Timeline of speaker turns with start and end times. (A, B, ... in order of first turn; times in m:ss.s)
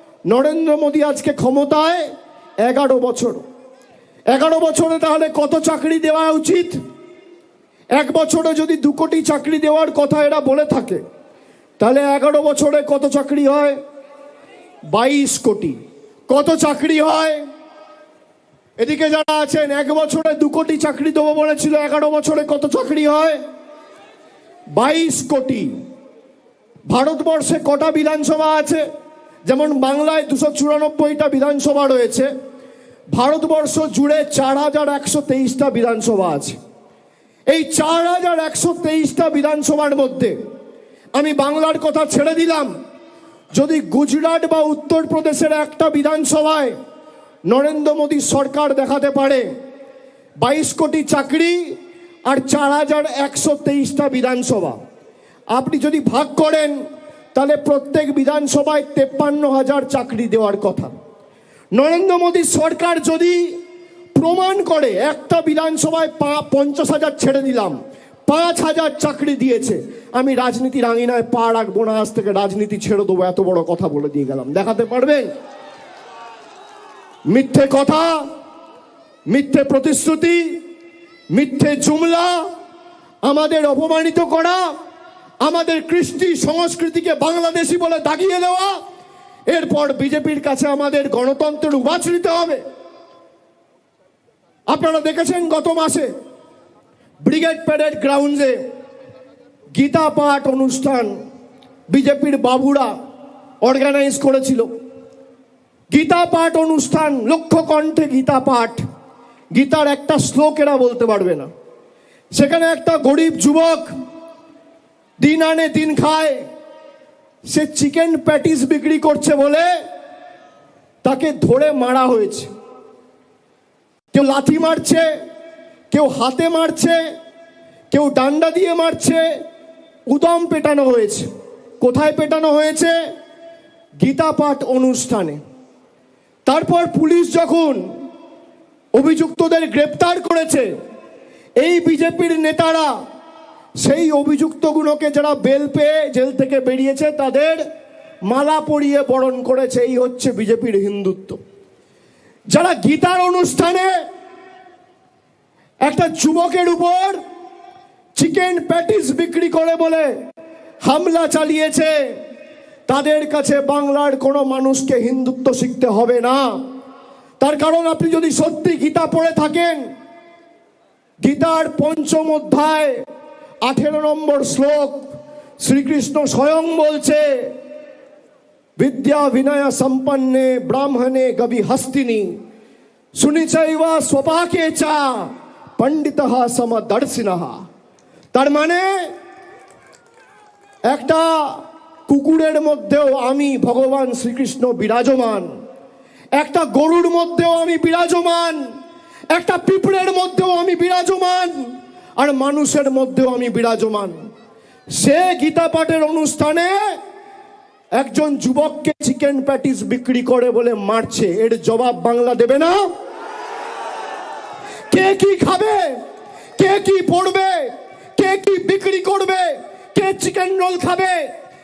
0:00.3-0:02.0 A
0:02.6-0:03.4 A
0:04.3-0:06.8 A
0:08.0-0:11.0 A
0:11.8-0:13.8 A
0:14.9-0:15.8 A
0:16.3-0:17.4 A
0:18.8-0:23.4 A
0:24.7-0:25.7 A
0:26.9-0:28.8 A
0:29.4-0:32.3 A
0:33.1-0:36.6 A
0:37.5-0:40.4 A
0:41.1-0:42.7 A
0:43.5-0:46.7 A
0:47.5-0:49.5 A
0:50.4-0:51.7 A
0:52.2-0:54.8 A
0:55.5-0:56.8 A
0:57.3-1:00.9 A
1:01.7-1:03.5 A
1:04.2-1:15.3 A
1:17.3-1:18.2 A
1:19.3-1:20.6 A
1:21.3-1:22.4 A
1:23.2-1:24.6 A
1:25.4-1:28.8 A
1:29.5-1:32.6 A
1:34.7-1:36.1 A
1:37.2-1:38.6 A
1:39.8-1:41.2 A
1:41.9-1:42.9 A
1:43.6-1:44.7 A
1:45.9-1:48.8 A
1:49.6-1:51.5 A
1:52.3-1:53.9 A
1:55.2-1:56.4 A
1:57.5-1:59.7 A
2:01.0-2:02.5 A
2:04.1-2:05.1 A
2:05.9-2:07.0 A
2:07.9-2:09.2 A
2:10.1-2:11.3 A
2:11.8-2:12.9 A
2:14.0-2:15.4 A
2:16.4-2:17.8 A
2:18.9-2:20.7 A
2:21.6-2:22.9 A
2:23.8-2:27.6 A
2:28.3-2:31.4 A
2:32.5-2:33.9 A
2:35.8-2:37.2 A
2:38.2-2:40.1 A
2:40.8-2:41.9 A
2:42.9-2:46.5 A
2:47.4-2:49.9 A
2:51.2-2:53.0 A
2:53.6-2:55.1 A
2:55.6-2:57.5 A
2:58.8-3:02.2 A
3:03.2-3:07.6 A
3:08.3-3:08.9 A
3:10.9-3:15.5 A
3:16.4-3:18.6 A
3:19.3-3:24.2 A
3:25.0-3:26.8 A
3:28.0-3:32.8 A
3:34.9-3:36.0 A
3:36.6-3:37.7 A
3:38.2-3:41.3 A